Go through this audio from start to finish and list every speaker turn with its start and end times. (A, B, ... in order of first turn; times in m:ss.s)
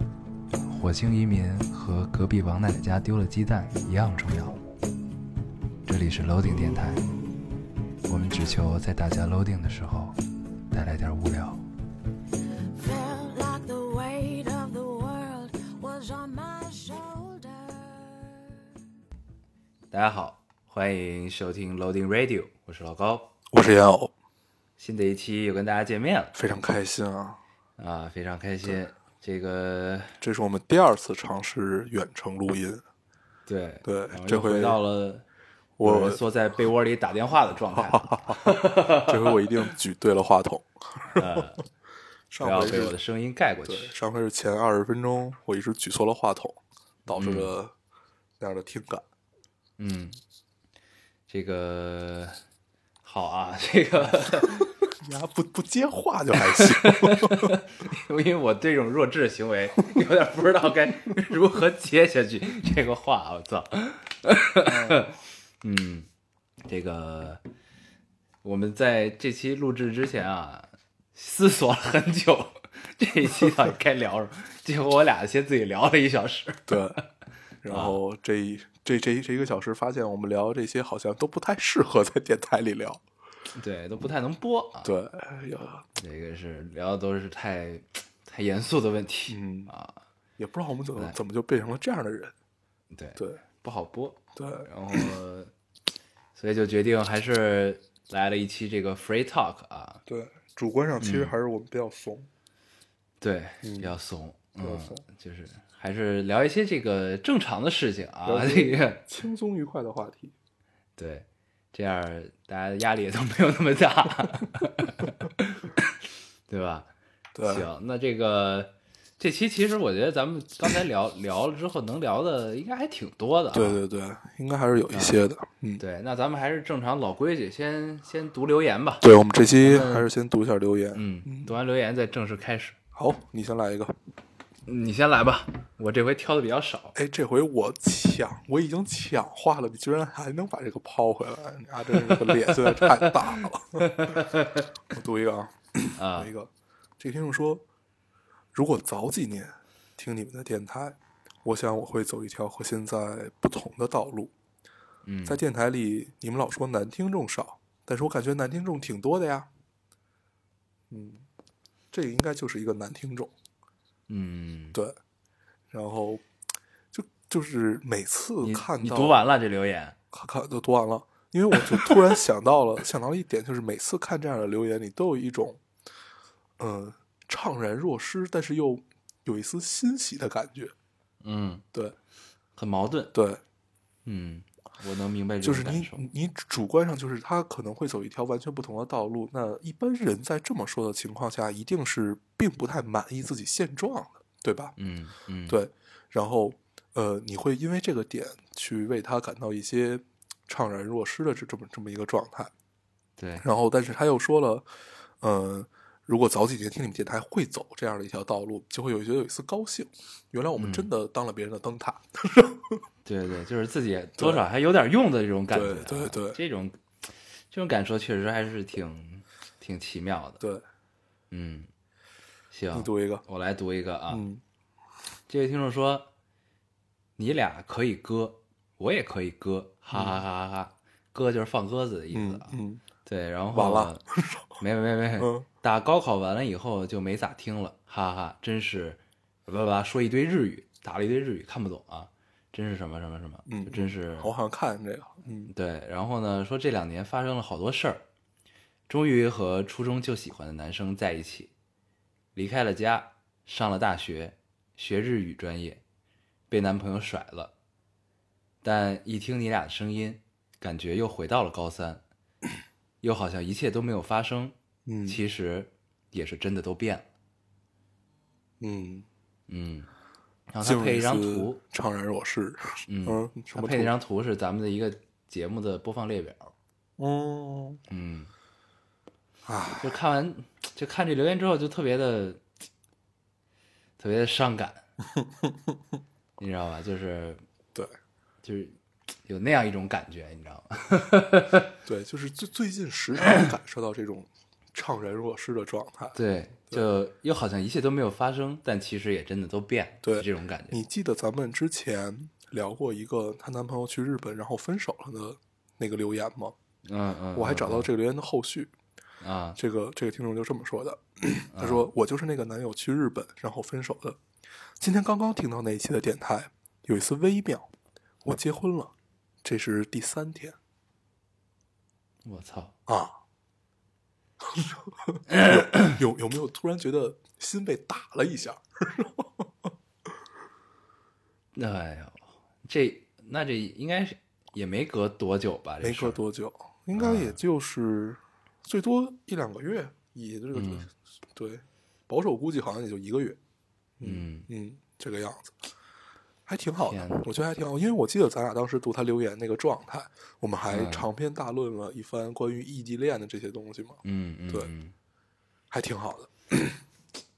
0:00.6-0:04.6 A
0:05.8-0:07.1 A
0:08.1-0:10.2 A
0:10.7-0:11.6 A
0:12.7-0:18.5 B
0:19.9-0:23.3 A
0:23.5-0:24.1 C
0:24.8-0:26.4 A
0:26.3-0:27.4 C
0:27.8-0:30.2 A
0:30.2-0:32.8 C
0:33.4-0:35.2 A
0:33.8-0:34.8 C
0:35.8-0:36.2 C
0:35.8-0:39.5 A
0:37.7-0:41.5 C
0:41.1-0:41.6 A
0:42.3-0:43.0 C
0:42.4-0:43.9 A
0:43.7-0:47.7 C
0:47.1-0:47.5 A
0:48.4-0:49.0 C
0:49.8-0:50.2 A
0:51.3-0:52.4 A
0:53.0-0:54.7 A
0:54.0-0:57.6 C
0:56.4-1:06.1 A
1:04.6-1:05.1 C
1:06.6-1:07.4 A
1:08.4-1:17.0 A
1:16.7-1:17.0 C
1:17.6-1:23.0 C
1:17.7-1:18.0 A
1:23.5-1:24.9 A
1:24.8-1:25.8 C
1:26.0-1:30.0 A
1:29.3-1:29.7 C
1:30.4-1:32.3 C
1:32.9-1:35.5 A
1:33.2-1:33.4 C
1:34.4-1:35.1 C
1:36.3-1:40.0 A
1:40.0-1:42.3 C
1:41.0-1:41.3 A
1:43.2-1:49.0 A
1:43.6-1:43.9 C
1:44.6-1:45.0 C
1:48.2-1:50.3 C
1:51.0-1:55.9 A
1:56.5-1:56.9 A
1:57.3-1:57.7 C
1:57.4-2:03.8 A
2:03.5-2:05.8 C
2:04.9-2:05.2 A
2:05.8-2:09.0 A
2:09.0-2:11.5 C
2:09.6-2:10.1 A
2:10.9-2:12.8 A
2:12.9-2:14.0 C
2:14.6-2:17.0 A
2:16.9-2:24.2 C
2:22.0-2:23.1 A
2:23.8-2:24.7 A
2:24.9-2:27.6 C
2:26.0-2:26.3 A
2:28.5-2:34.3 C
2:35.0-2:35.4 A
2:35.2-2:39.5 C
2:40.9-2:41.3 C
2:41.9-2:43.3 C
2:44.1-2:44.8 A
2:45.7-2:46.2 C
2:46.9-2:49.2 C
2:48.4-2:50.0 A
2:50.1-2:55.6 C
2:56.6-3:00.7 C
3:01.2-3:01.6 A
3:02.6-3:03.1 A
3:03.1-3:03.4 C
3:04.0-3:06.0 A
3:05.4-3:14.7 C
3:14.8-3:15.6 A
3:15.5-3:22.5 C
3:23.2-3:23.4 A
3:23.4-3:24.7 C
3:25.2-3:32.8 C
3:30.6-3:30.9 A
3:33.0-3:40.4 A
3:34.2-3:34.4 C
3:35.5-3:36.4 C
3:41.3-3:41.7 A
3:42.5-3:44.2 A
3:42.7-3:43.2 C
3:44.1-3:44.4 C
3:45.3-3:46.1 A
3:47.2-3:54.0 A
3:49.9-3:50.2 C
3:52.1-3:52.8 C
3:53.5-3:54.5 C
3:54.6-4:04.3 A
3:55.2-3:55.4 C
4:03.5-4:05.5 C
4:05.5-4:08.0 A
4:08.9-4:11.5 A
4:12.3-4:15.8 A
4:16.5-4:17.5 A
4:18.6-4:22.0 A
4:23.0-4:24.5 A
4:24.8-4:25.2 C
4:25.0-4:27.0 A
4:28.6-4:29.1 C
4:29.5-4:29.9 A
4:30.5-4:31.6 A
4:30.6-4:33.9 C
4:32.9-4:36.5 A
4:37.0-4:37.8 C
4:37.9-4:38.3 A
4:39.4-4:39.9 C
4:39.8-4:42.4 A
4:44.0-4:44.8 A
4:45.1-4:45.7 C
4:46.4-4:47.4 A
4:48.4-4:51.7 A
4:51.8-4:56.2 C
4:56.1-5:00.8 A
5:00.0-5:06.6 C
5:06.8-5:07.9 A
5:07.3-5:08.7 C
5:09.2-5:09.6 A
5:09.6-5:14.2 C
5:11.5-5:11.9 A
5:14.8-5:17.7 C
5:18.2-5:20.6 C
5:22.2-5:22.7 A
5:22.9-5:23.2 C
5:24.4-5:29.7 C
5:25.3-5:26.0 A
5:31.5-5:36.2 A
5:35.8-5:43.4 C
5:36.9-5:37.4 A
5:40.5-5:40.9 A
5:44.0-5:45.6 C
5:44.0-5:44.5 A
5:46.4-5:54.7 C
5:46.8-5:47.2 A
5:50.7-5:51.0 A
5:54.0-5:54.9 A
5:55.7-5:56.8 C